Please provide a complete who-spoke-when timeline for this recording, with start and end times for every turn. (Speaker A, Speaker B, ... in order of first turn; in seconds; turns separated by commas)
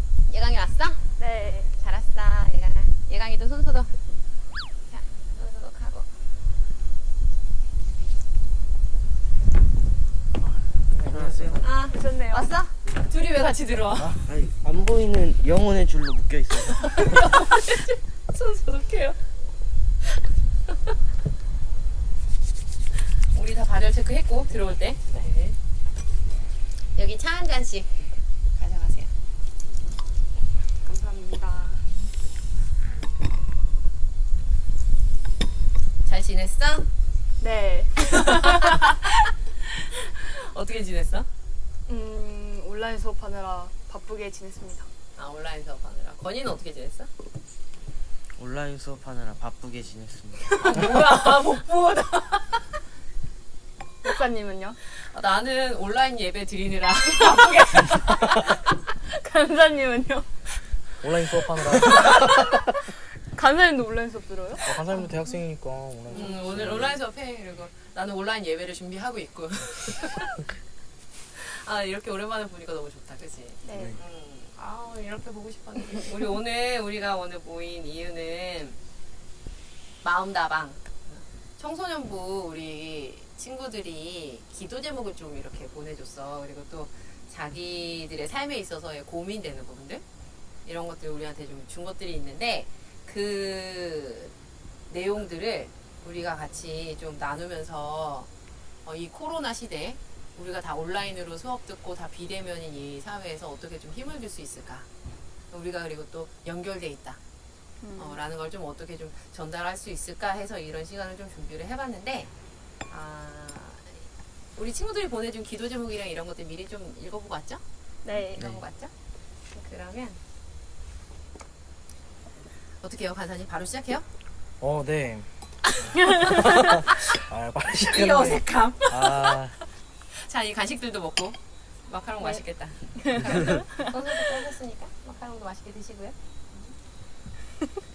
Speaker A: 0.3-1.1, Speaker B: 1.2-1.7, Speaker A: 1.7-3.9, Speaker A: 4.9-6.1, Speaker C: 10.4-11.7, Speaker D: 11.0-11.7, Speaker A: 11.6-14.2, Speaker B: 11.9-12.5, Speaker D: 14.2-16.9, Speaker A: 16.9-19.2, Speaker A: 23.2-25.6, Speaker A: 26.9-29.1, Speaker B: 30.8-31.9, Speaker A: 36.0-36.9, Speaker B: 37.4-38.5, Speaker A: 38.0-39.1, Speaker A: 39.6-41.3, Speaker B: 41.9-44.9, Speaker A: 45.1-47.1, Speaker D: 48.4-50.4, Speaker A: 50.5-52.7, Speaker B: 54.0-54.8, Speaker A: 54.9-58.6, Speaker B: 59.0-60.3, Speaker C: 61.0-62.5, Speaker B: 61.8-62.4, Speaker B: 63.3-65.0, Speaker C: 64.6-67.0, Speaker A: 66.1-70.4, Speaker B: 66.1-66.4, Speaker A: 71.3-78.8, Speaker B: 73.6-74.0, Speaker C: 73.7-74.0, Speaker A: 80.0-90.0, Speaker A: 90.6-94.3, Speaker A: 94.9-98.3, Speaker A: 98.8-104.9, Speaker A: 105.5-107.2, Speaker B: 107.8-108.2, Speaker A: 108.0-112.3, Speaker A: 112.9-118.9, Speaker B: 118.0-118.5, Speaker A: 119.5-120.2, Speaker A: 122.8-124.0, Speaker C: 124.6-125.3, Speaker A: 125.7-127.1, Speaker C: 125.9-129.6, Speaker A: 127.7-129.4, Speaker A: 130.1-136.7, Speaker B: 133.0-133.8